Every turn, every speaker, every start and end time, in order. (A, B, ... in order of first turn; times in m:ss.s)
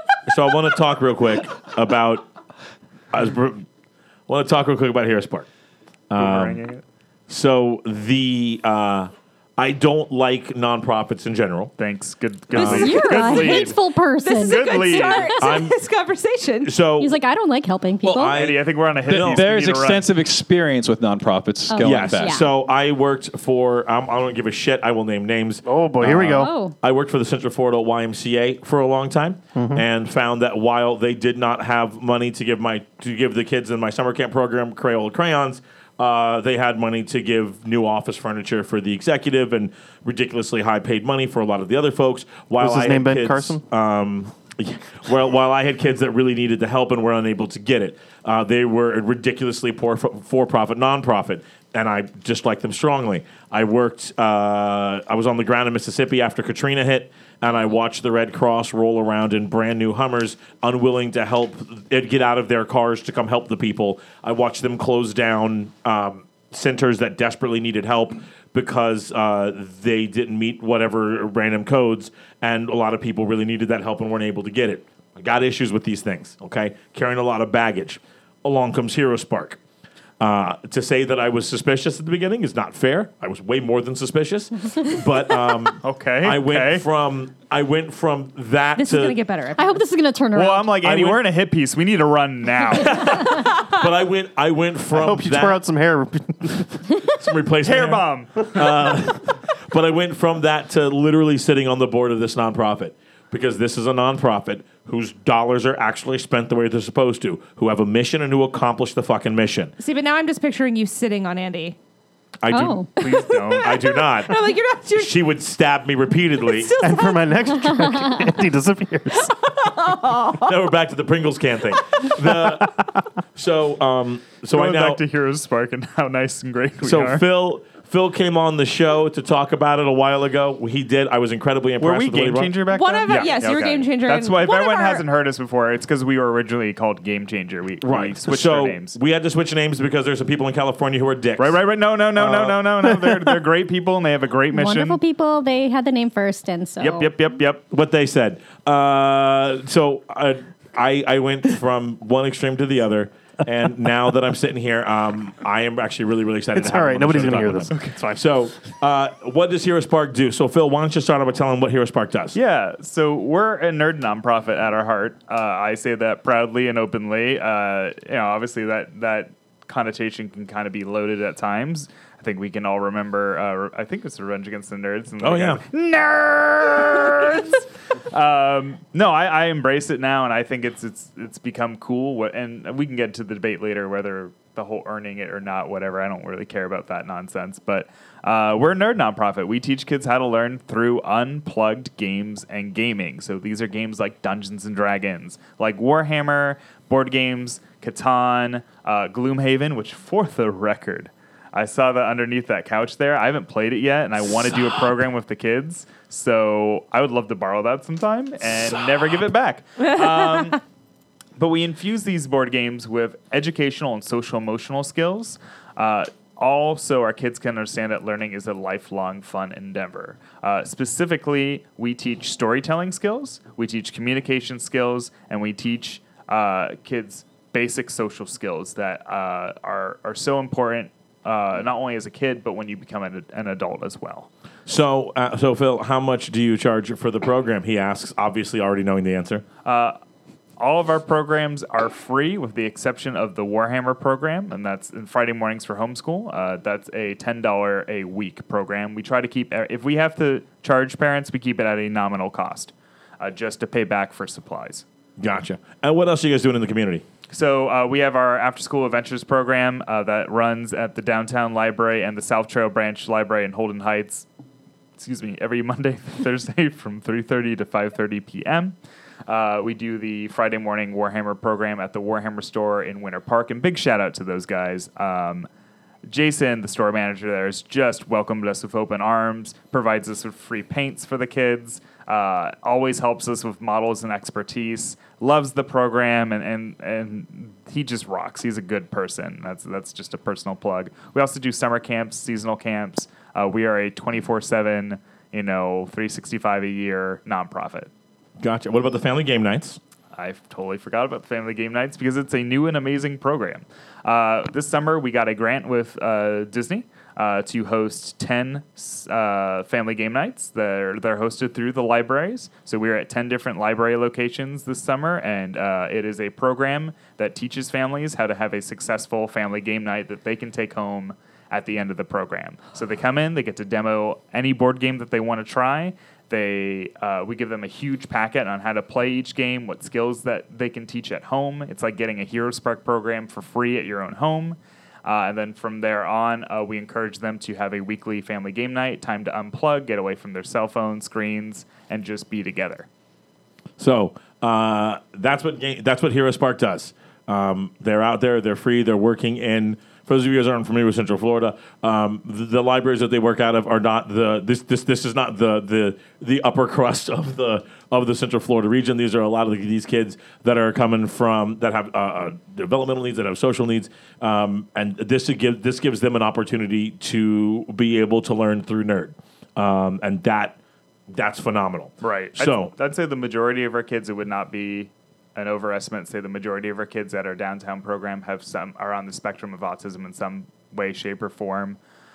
0:00.3-0:02.2 A
0:03.1-0:03.6 A
0:04.3-0:05.5 A
0:06.1-0:06.6 A
0:06.2-0:06.8 B
0:07.3-0:11.7 A
0:11.8-0:13.8 B
0:12.5-0:13.0 A
0:12.6-0:15.4 C
0:12.6-0:13.7 D
0:14.2-0:16.7 D
0:14.5-0:15.4 B
0:15.4-0:15.8 A
0:16.6-0:17.2 A
0:17.0-0:18.4 C
0:18.0-0:18.3 E
0:18.2-0:19.5 A
0:18.3-0:20.1 B
0:19.1-0:22.4 E
0:21.7-0:22.5 C
0:21.8-1:19.6 A
0:25.6-0:26.5 F
0:26.4-0:26.8 C
0:29.6-0:29.8 F
0:42.6-0:43.6 F
1:20.2-1:29.2 A
1:25.8-1:26.8 B
1:28.8-1:29.8 D
1:29.6-1:30.8 C
1:30.4-1:33.4 B
1:30.8-1:31.2 A
1:32.7-1:35.6 A
1:34.9-1:36.7 F
1:37.1-1:49.7 A
1:37.6-1:38.7 B
1:49.8-1:51.8 D
1:52.4-1:56.7 A
1:52.5-1:53.1 C
1:53.0-1:53.9 B
1:53.4-1:55.2 D
1:56.4-1:57.8 D
1:56.8-1:59.3 F
1:59.2-2:00.6 D
2:00.3-2:02.8 A
2:03.4-2:05.0 A
2:04.5-2:07.2 B
2:06.8-2:13.3 A
2:11.8-2:19.0 B
2:12.7-2:15.0 D
2:17.8-2:21.6 A
2:21.4-2:25.0 B
2:22.2-2:22.6 A
2:22.4-2:23.4 F
2:24.5-2:27.1 C
2:26.8-2:27.6 B
2:27.7-2:42.4 A
2:36.6-2:38.2 F
2:42.3-3:30.6 B
2:55.2-2:55.6 A
3:31.4-3:54.3 B
3:54.7-3:59.4 A
3:59.6-4:00.0 B
4:00.6-4:14.8 B
4:15.2-4:17.0 A
4:17.3-4:24.3 B
4:25.0-4:35.5 B
4:36.1-4:57.9 B
4:58.4-4:59.8 A
5:00.1-5:42.9 B
5:43.8-6:10.6 A
6:11.1-6:12.7 A
6:12.0-6:21.8 B